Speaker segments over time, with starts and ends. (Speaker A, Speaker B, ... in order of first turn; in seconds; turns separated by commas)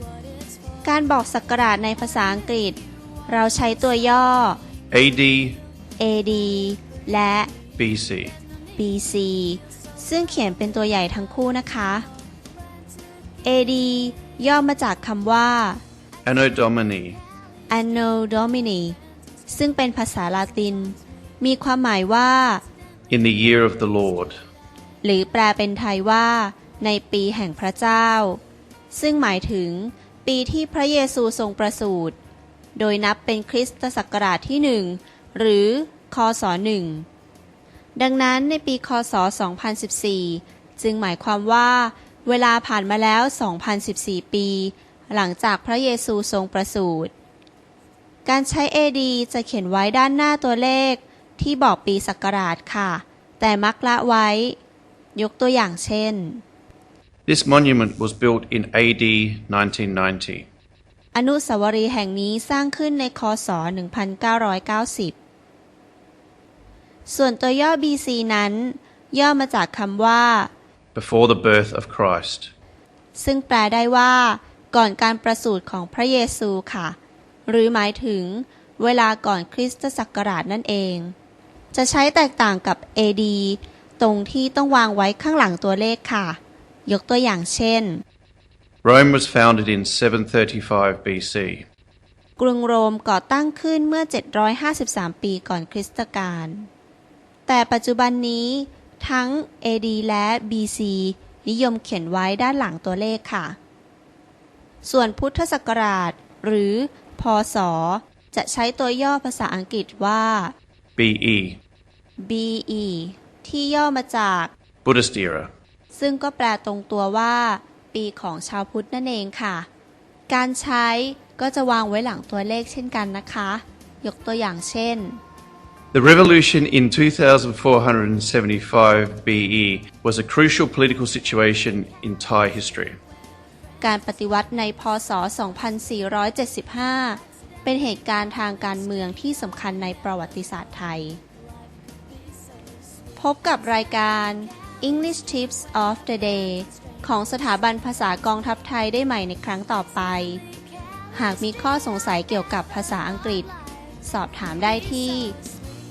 Speaker A: 0.8-4.6, Speaker B: 4.9-5.6, Speaker A: 6.0-7.5, Speaker B: 7.8-8.3, Speaker A: 8.8-12.1, Speaker A: 13.4-15.8, Speaker B: 16.2-17.2, Speaker A: 17.7-19.0, Speaker A: 19.5-22.6, Speaker B: 23.1-24.4, Speaker A: 25.0-28.4, Speaker A: 28.9-32.2, Speaker A: 32.8-37.1, Speaker A: 38.0-47.1, Speaker A: 48.2-54.6, Speaker A: 55.1-56.4, Speaker B: 57.3-60.5, Speaker A: 61.1-65.2, Speaker A: 67.1-70.5, Speaker B: 71.0-72.5, Speaker A: 73.2-81.2, Speaker A: 81.7-88.0, Speaker B: 88.8-91.7, Speaker A: 92.4-96.7, Speaker A: 97.5-103.6, Speaker A: 104.8-110.5, Speaker B: 111.0-111.6, Speaker A: 112.2-114.5, Speaker B: 114.8-115.5, Speaker A: 115.9-119.7, Speaker A: 120.3-125.2, Speaker B: 125.9-133.0, Speaker A: 133.8-141.2, Speaker A: 143.2-150.4, Speaker A: 151.1-153.5, Speaker A: 154.0-155.3